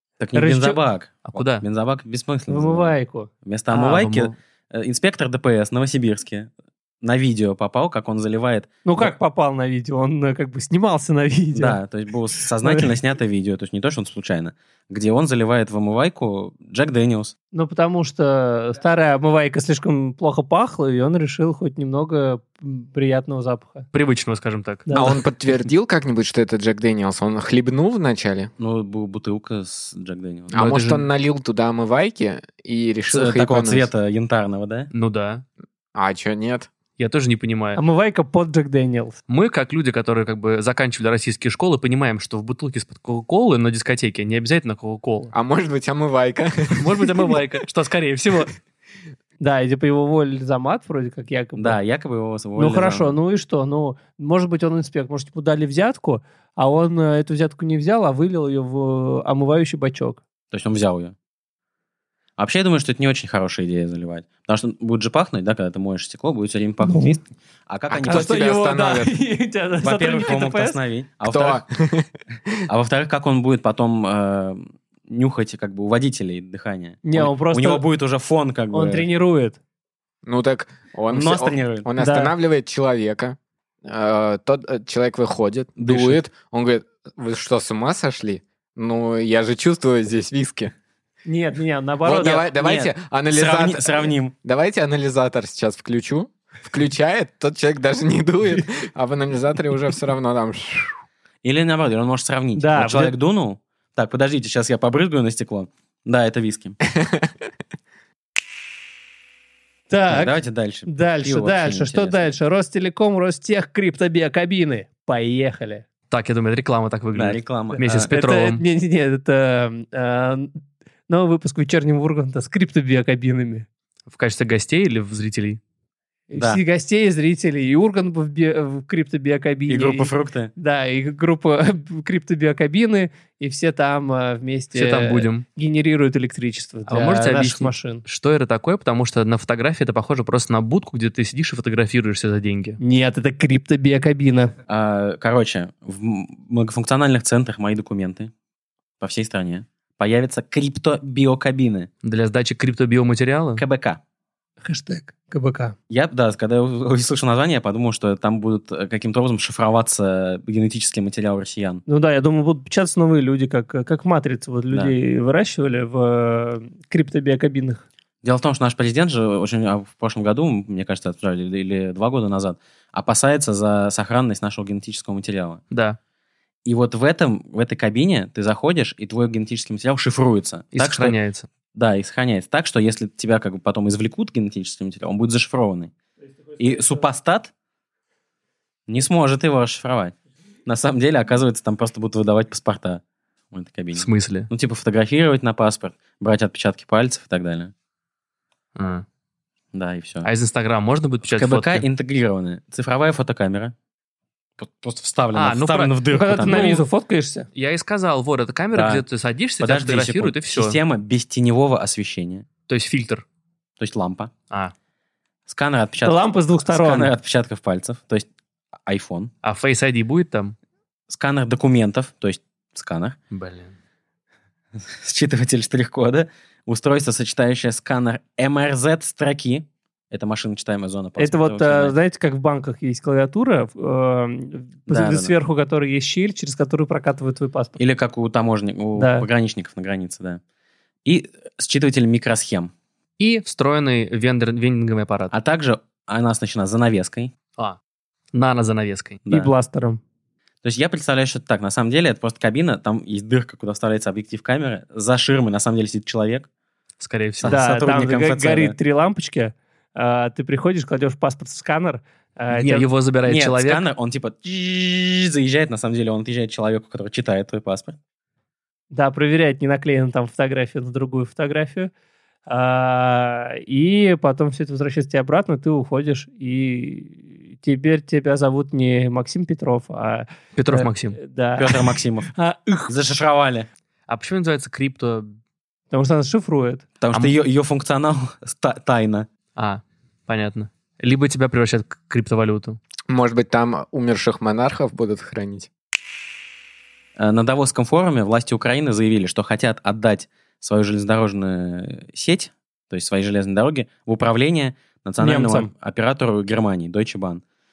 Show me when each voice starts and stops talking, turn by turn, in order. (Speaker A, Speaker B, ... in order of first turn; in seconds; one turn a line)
Speaker A: 0.2-6.5
Speaker B: 0.3-0.8
Speaker C: 1.3-1.6
Speaker B: 2.5-3.3
Speaker C: 3.7-4.3
Speaker A: 7.0-9.1
Speaker B: 8.8-11.8
Speaker A: 11.5-17.3
Speaker B: 12.6-12.9
Speaker B: 17.5-23.9
Speaker C: 23.9-24.9
Speaker B: 24.9-25.2
Speaker D: 24.9-28.5
Speaker A: 28.6-30.9
Speaker D: 30.5-33.9
Speaker C: 30.6-31.1
Speaker A: 33.1-34.9
Speaker C: 34.9-35.5
Speaker D: 36.0-36.7
Speaker C: 37.0-37.8
Speaker B: 37.8-39.2
Speaker C: 39.3-45.3
Speaker D: 45.3-47.1
Speaker C: 46.7-48.5
Speaker B: 49.4-51.8
Speaker A: 51.6-53.2
Speaker B: 52.6-60.2
Speaker A: 60.5-61.1
Speaker A: 62.4-68.4
Speaker B: 66.8-67.2
Speaker D: 67.9-69.2
Speaker B: 68.0-70.8
Speaker A: 69.8-71.6
Speaker D: 71.3-72.1
Speaker A: 72.7-79.1
Speaker B: 77.0-77.8
Speaker B: 78.7-79.6
Speaker D: 80.2-90.7
Speaker A: 81.1-81.9
Speaker B: 82.0-82.3
Speaker A: 85.8-86.2
Speaker B: 91.3-92.5
Speaker D: 92.0-100.9
Speaker A: 92.1-94.3
Speaker A: 101.4-106.8
Speaker B: 102.6-103.1
Speaker B: 109.9-115.8
Speaker A: 110.1-112.3
Speaker C: 116.1-118.6
Speaker A: 117.1-118.0
Speaker B: 117.8-120.5
Speaker B: 121.1-123.7
Speaker C: 124.1-125.6
Speaker B: 126.3-138.0
Speaker A: 126.3-126.6
Speaker A: 129.7-130.5
Speaker C: 134.7-135.4
Speaker C: 136.9-142.8
Speaker B: 142.8-144.5
Speaker A: 144.7-148.3
Speaker A: 149.0-151.9
Speaker C: 152.0-153.6
Speaker A: 153.6-154.0
Speaker B: 154.6-155.8
Speaker A: 155.9-161.8
Speaker B: 161.9-167.8
Speaker A: 168.2-175.6
Speaker C: 175.7-176.0
Speaker A: 176.7-181.2
Speaker C: 180.7-181.5
Speaker A: 181.7-185.9
Speaker B: 186.6-187.0
Speaker A: 186.6-187.5
Speaker A: 188.9-190.2
Speaker A: 190.7-197.7
Speaker C: 193.9-194.5
Speaker C: 198.8-199.1
Speaker A: 199.7-200.3
Speaker C: 200.2-201.9
Speaker A: 201.2-203.7
Speaker A: 204.6-206.8
Speaker C: 205.3-206.8
Speaker B: 206.1-207.5
Speaker C: 207.6-210.8
Speaker A: 208.7-209.0
Speaker A: 209.6-212.5
Speaker C: 212.7-213.2
Speaker A: 213.8-214.3
Speaker A: 215.5-218.3
Speaker B: 216.0-217.1
Speaker A: 218.9-219.3
Speaker C: 219.4-220.6
Speaker A: 221.1-223.2
Speaker C: 223.3-223.8
Speaker A: 224.8-231.9
Speaker B: 231.2-237.8
Speaker A: 234.9-235.3
Speaker A: 237.8-240.4
Speaker B: 239.0-239.3
Speaker A: 241.1-242.7
Speaker C: 243.2-245.3
Speaker A: 245.3-247.3
Speaker C: 248.3-249.3
Speaker B: 249.3-250.0
Speaker A: 250.6-256.5
Speaker C: 257.0-257.6
Speaker A: 257.4-258.8
Speaker B: 257.5-262.9
Speaker C: 262.5-263.9
Speaker A: 263.3-268.0
Speaker B: 268.9-271.9
Speaker B: 272.5-282.9
Speaker C: 280.6-281.2
Speaker A: 281.6-282.3
Speaker A: 282.9-283.7
Speaker C: 284.1-285.3
Speaker B: 285.9-286.9
Speaker A: 287.0-289.3
Speaker C: 289.6-292.8
Speaker D: 293.1-295.7
Speaker A: 297.2-307.4
Speaker B: 305.2-305.7